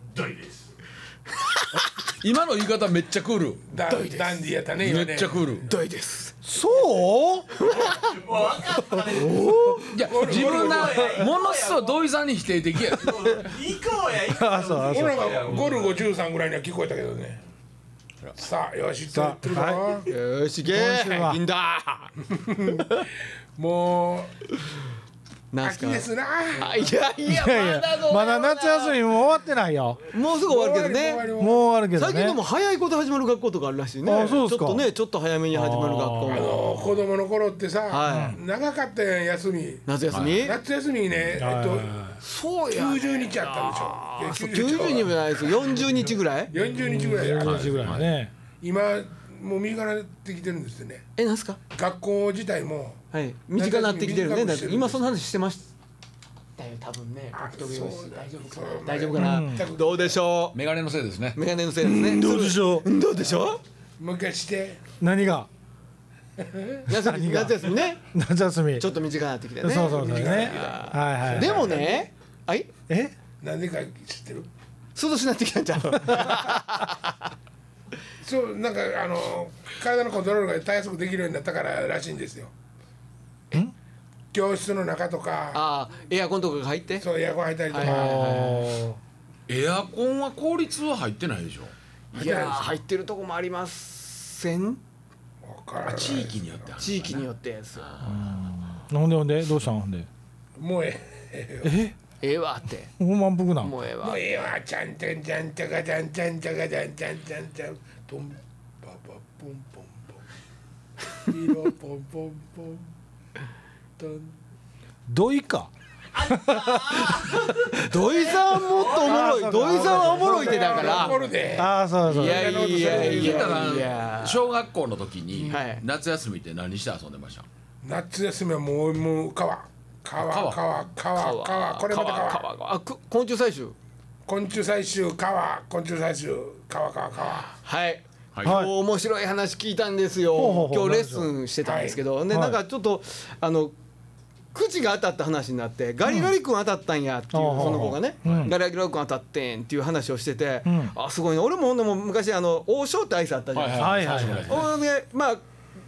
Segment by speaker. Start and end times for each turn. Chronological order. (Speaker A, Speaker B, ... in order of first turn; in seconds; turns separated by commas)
Speaker A: 0.1-0.6, Speaker B: 1.3-2.1, Speaker C: 2.0-3.6, Speaker D: 3.7-5.5, Speaker B: 3.9-4.5, Speaker C: 4.8-5.7, Speaker B: 5.6-6.3, Speaker E: 6.4-7.5, Speaker B: 7.5-10.1, Speaker A: 7.6-9.5, Speaker E: 9.3-9.8, Speaker C: 9.9-13.4, Speaker D: 10.1-11.2, Speaker A: 10.2-11.9, Speaker A: 12.9-16.0, Speaker E: 14.2-15.2, Speaker D: 14.8-17.4, Speaker D: 18.4-20.1, Speaker E: 19.1-20.0, Speaker B: 20.1-22.1, Speaker E: 20.7-21.4, Speaker D: 22.3-23.0, Speaker D: 23.6-24.5, Speaker B: 25.5-29.0, Speaker D: 25.6-26.9, Speaker E: 27.2-30.0, Speaker B: 30.1-31.3, Speaker D: 30.4-31.6, Speaker E: 31.4-32.4, Speaker B: 31.9-36.7, Speaker E: 34.0-34.9, Speaker E: 35.5-37.0, Speaker D: 36.3-41.9, Speaker B: 37.9-38.4, Speaker E: 38.1-38.4, Speaker B: 39.9-40.6, Speaker C: 40.1-40.5, Speaker E: 41.4-42.2, Speaker B: 42.2-46.5, Speaker D: 42.7-48.0, Speaker E: 46.6-48.3, Speaker C: 47.4-48.1, Speaker D: 48.6-51.0, Speaker B: 51.1-51.6, Speaker D: 51.7-53.0, Speaker B: 53.1-55.7, Speaker D: 53.5-55.2, Speaker B: 56.6-60.6, Speaker D: 57.3-60.2, Speaker E: 59.1-59.7, Speaker C: 60.5-61.4, Speaker B: 61.3-63.6, Speaker E: 61.8-62.9, Speaker D: 64.0-64.8, Speaker E: 65.0-65.5, Speaker D: 66.4-66.9, Speaker B: 66.9-68.0, Speaker E: 66.9-68.9, Speaker B: 68.8-72.7, Speaker E: 69.6-71.8, Speaker D: 69.7-72.1, Speaker E: 72.9-73.1, Speaker D: 73.4-74.5, Speaker B: 75.0-77.2, Speaker E: 76.0-76.4, Speaker D: 78.2-82.5, Speaker D: 84.3-85.6, Speaker B: 85.5-87.0, Speaker D: 87.0-88.5, Speaker B: 87.7-88.7, Speaker E: 87.8-89.0, Speaker C: 89.5-91.7, Speaker B: 92.1-94.8, Speaker D: 92.1-92.8, Speaker D: 95.4-96.7, Speaker C: 95.8-98.3, Speaker B: 96.8-97.9, Speaker E: 98.0-100.1, Speaker D: 100.6-101.7, Speaker E: 101.6-101.9, Speaker B: 102.2-102.9, Speaker E: 103.0-103.7, Speaker B: 103.6-104.2, Speaker D: 104.0-110.2, Speaker D: 111.2-112.8, Speaker D: 114.0-114.3, Speaker E: 115.1-117.8, Speaker A: 116.2-119.2, Speaker B: 117.7-121.2, Speaker E: 118.9-123.2, Speaker D: 120.2-123.8, Speaker B: 122.1-124.5, Speaker C: 122.8-127.5, Speaker B: 125.5-125.8, Speaker D: 127.8-132.5, Speaker C: 130.2-130.6, Speaker B: 131.1-133.8, Speaker D: 134.2-137.5, Speaker B: 137.6-143.7, Speaker C: 138.3-138.6, Speaker E: 138.4-138.7, Speaker E: 140.3-141.3, Speaker D: 141.6-142.0, Speaker E: 142.3-142.6, Speaker B: 144.5-155.4, Speaker E: 146.0-146.3, Speaker E: 147.3-148.5, Speaker C: 147.6-148.6, Speaker E: 150.7-150.9, Speaker C: 153.5-154.7, Speaker E: 153.7-154.7